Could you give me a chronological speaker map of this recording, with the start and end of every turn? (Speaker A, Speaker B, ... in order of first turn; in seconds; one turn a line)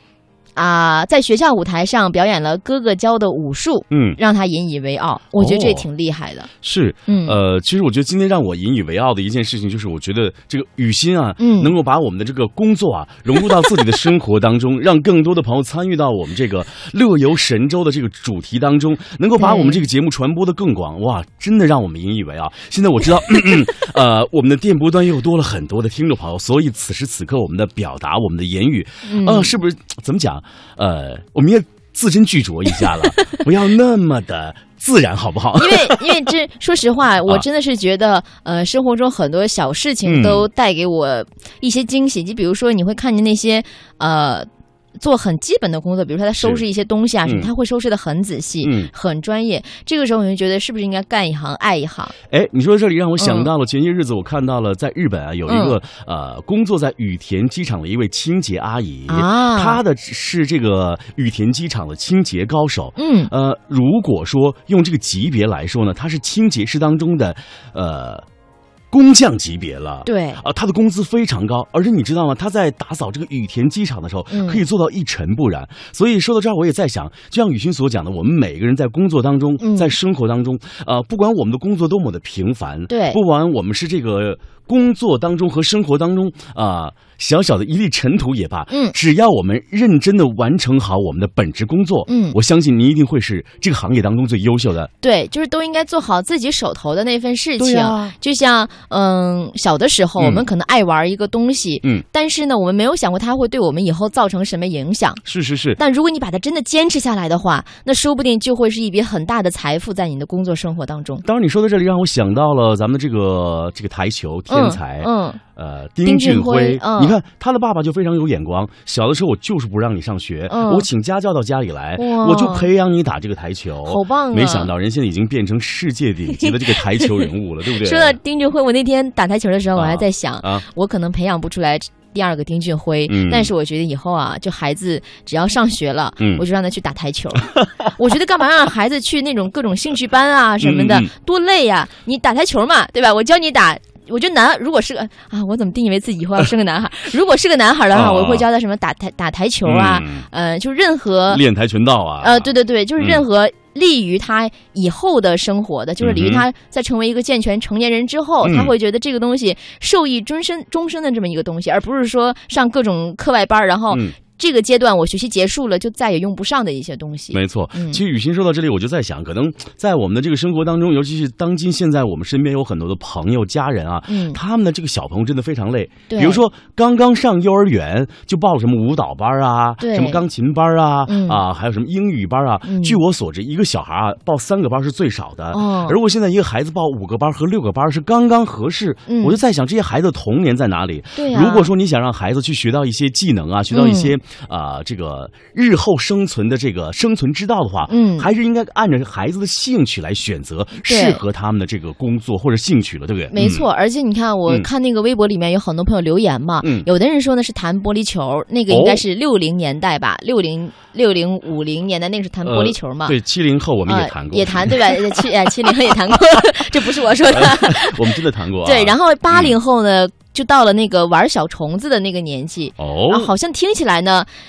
Speaker A: 0.6-6.5
Speaker B: 3.9-4.2
Speaker B: 5.4-5.8
Speaker B: 6.6-36.3
Speaker A: 7.1-7.3
Speaker A: 11.4-11.7
Speaker A: 19.4-19.8
Speaker A: 29.0-29.6
Speaker A: 35.6-44.5
Speaker B: 40.0-40.5
Speaker A: 45.0-52.1
Speaker B: 48.6-48.9
Speaker B: 52.3-68.2
Speaker A: 53.2-53.5
Speaker A: 55.5-55.8
Speaker A: 59.1-59.8
Speaker A: 63.0-63.3
Speaker B: 68.9-94.9
Speaker A: 70.0-70.4
Speaker A: 74.3-74.6
Speaker A: 79.6-79.9
Speaker A: 82.9-83.2
Speaker A: 88.7-89.0
Speaker A: 92.1-92.4
Speaker A: 95.0-105.2
Speaker B: 97.6-98.1
Speaker B: 100.2-100.5
Speaker B: 105.2-105.8
Speaker A: 105.8-111.2
Speaker B: 111.2-128.2
Speaker A: 114.5-115.4
Speaker A: 116.0-117.2
Speaker A: 120.5-120.9
Speaker A: 122.0-122.7
Speaker A: 123.8-124.7
Speaker A: 126.3-151.4
Speaker B: 129.8-130.6
Speaker B: 133.1-133.5
Speaker B: 136.2-136.4
Speaker B: 140.6-141.1
Speaker B: 147.9-148.4
Speaker B: 149.6-150.3
Speaker B: 151.3-153.2
Speaker A: 152.2-168.0
Speaker B: 156.0-156.4
Speaker B: 158.4-158.7
Speaker B: 163.9-164.2
Speaker B: 167.3-203.6
Speaker A: 174.1-174.4
Speaker A: 176.1-176.4
Speaker A: 179.8-180.2
Speaker A: 181.1-181.4
Speaker A: 182.6-183.0
Speaker A: 185.5-186.0
Speaker A: 189.1-189.4
Speaker A: 191.2-191.7
Speaker A: 193.7-194.1
Speaker A: 197.9-198.3
Speaker A: 200.8-201.2
Speaker A: 203.3-213.1
Speaker B: 206.6-206.9
Speaker B: 208.7-209.0
Speaker B: 212.4-215.2
Speaker A: 213.9-224.3
Speaker B: 217.3-219.6
Speaker B: 222.8-223.3